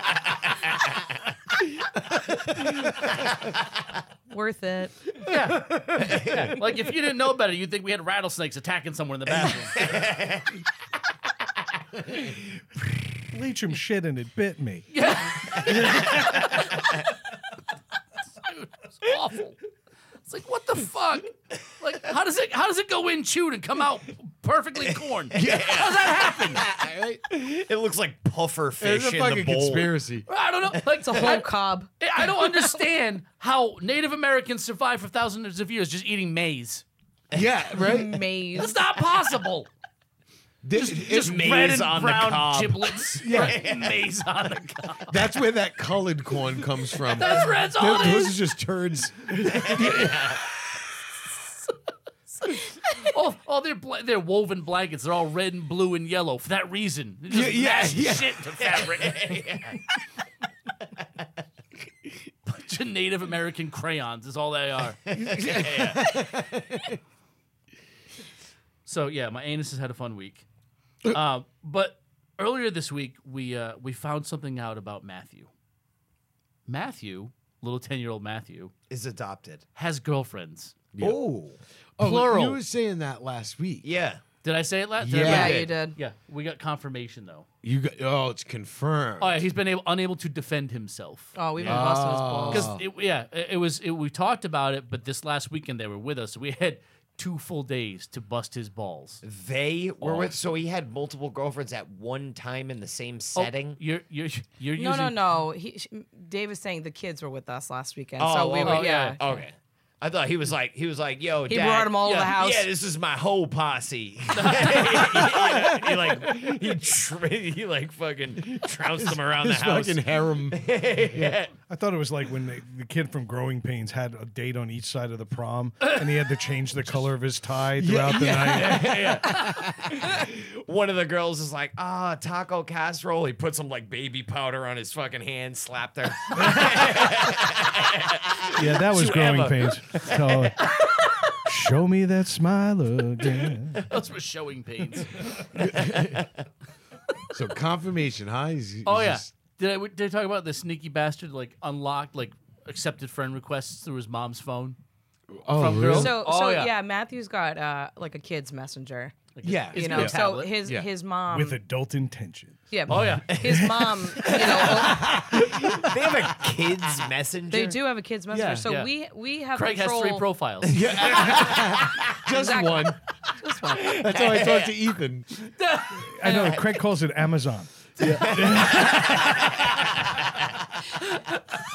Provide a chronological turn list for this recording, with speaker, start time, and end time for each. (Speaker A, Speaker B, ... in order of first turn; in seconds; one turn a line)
Speaker A: 4.3-5.0
Speaker B: 5.2-9.9
Speaker C: 6.1-6.5
Speaker C: 9.3-10.5
Speaker D: 13.3-14.9
Speaker B: 14.9-16.9
Speaker B: 18.4-19.6
Speaker B: 20.2-26.6
Speaker E: 25.4-25.9
Speaker C: 25.4-26.0
Speaker C: 26.6-30.0
Speaker E: 26.6-27.4
Speaker E: 28.8-30.3
Speaker B: 30.3-36.9
Speaker A: 31.0-31.9
Speaker A: 32.4-32.7
Speaker E: 37.3-38.3
Speaker A: 37.8-38.8
Speaker B: 38.5-39.7
Speaker E: 40.6-41.4
Speaker B: 40.8-45.4
Speaker C: 41.2-43.9
Speaker E: 43.2-43.5
Speaker E: 45.1-50.3
Speaker B: 47.1-48.4
Speaker C: 49.5-50.4
Speaker B: 52.5-59.4
Speaker E: 57.3-58.4
Speaker C: 58.6-59.8
Speaker B: 62.5-65.2
Speaker E: 65.1-66.9
Speaker C: 65.2-66.2
Speaker B: 68.8-70.5
Speaker B: 71.1-75.5
Speaker B: 76.7-78.7
Speaker C: 78.9-79.7
Speaker B: 79.8-80.8
Speaker E: 81.0-81.2
Speaker C: 81.0-81.6
Speaker E: 82.0-83.8
Speaker B: 82.0-82.6
Speaker C: 83.8-84.2
Speaker B: 84.4-87.5
Speaker E: 85.0-85.6
Speaker A: 85.2-86.0
Speaker C: 85.3-85.7
Speaker E: 87.6-89.4
Speaker B: 89.2-91.9
Speaker A: 91.4-92.7
Speaker E: 91.6-92.8
Speaker B: 92.5-99.2
Speaker C: 99.2-103.8
Speaker B: 100.0-100.3
Speaker B: 103.3-105.2
Speaker A: 104.8-109.5
Speaker C: 108.2-121.5
Speaker B: 108.6-109.2
Speaker A: 111.5-112.7
Speaker B: 112.0-112.4
Speaker B: 114.3-115.3
Speaker E: 115.3-116.8
Speaker E: 118.5-121.4
Speaker D: 121.7-129.0
Speaker B: 125.8-126.3
Speaker E: 127.8-130.3
Speaker B: 128.8-129.3
Speaker C: 128.9-129.4
Speaker C: 130.0-140.5
Speaker D: 138.5-140.6
Speaker D: 141.4-143.8
Speaker B: 143.8-145.2
Speaker E: 145.6-146.2
Speaker E: 147.3-149.3
Speaker B: 148.8-154.8
Speaker E: 155.4-156.2
Speaker B: 155.5-156.7
Speaker A: 155.8-159.2
Speaker B: 159.4-160.6
Speaker E: 159.4-160.9
Speaker A: 159.7-161.6
Speaker D: 161.3-162.7
Speaker A: 162.7-165.2
Speaker B: 162.9-163.6
Speaker E: 164.2-165.9
Speaker C: 165.3-167.8
Speaker A: 167.5-170.3
Speaker E: 168.3-168.7
Speaker B: 168.7-168.9
Speaker B: 169.5-171.0
Speaker E: 170.7-173.0
Speaker A: 172.3-174.1
Speaker E: 173.7-175.3
Speaker C: 174.1-174.8
Speaker B: 175.6-176.1
Speaker D: 176.1-179.3
Speaker A: 176.2-176.8
Speaker E: 178.0-178.5
Speaker C: 178.1-180.2
Speaker B: 178.7-179.5